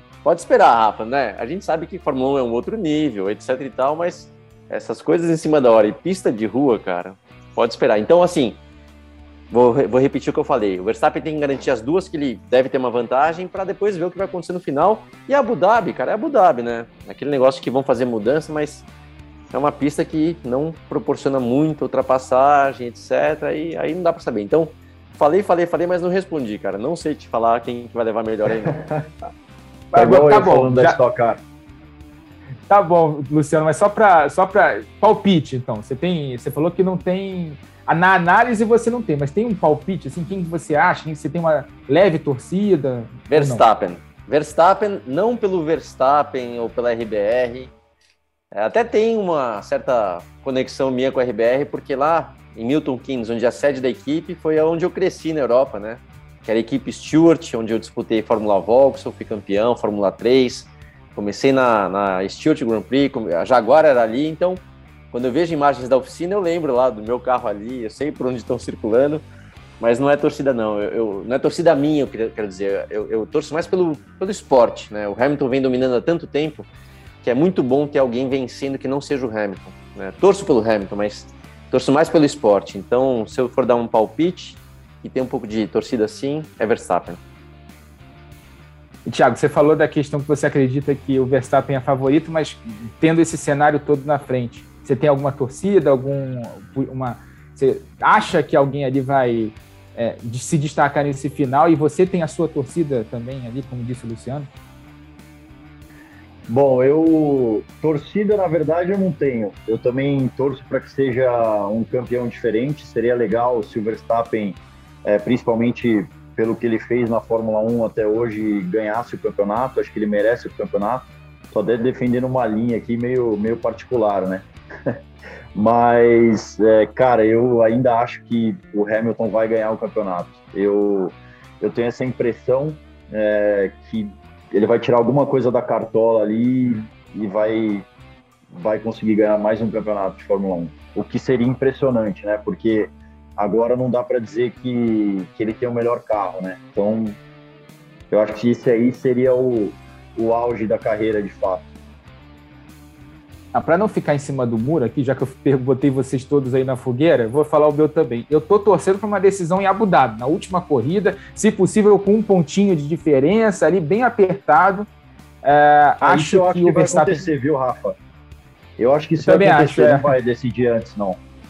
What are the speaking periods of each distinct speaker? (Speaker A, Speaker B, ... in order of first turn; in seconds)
Speaker A: 0.2-8.6, 9.5-18.9, 19.5-28.8, 43.3-47.7, 48.5-69.2, 69.8-76.7, 77.2-87.2
Speaker B: 28.6-29.0, 29.9-31.4, 106.5-125.0, 125.5-137.8, 138.5-147.2, 148.1-151.7, 166.0-167.9, 168.8-171.2
Speaker C: 29.9-31.0, 32.7-43.6, 89.0-104.5, 153.5-164.9, 165.4-167.2, 169.2-170.1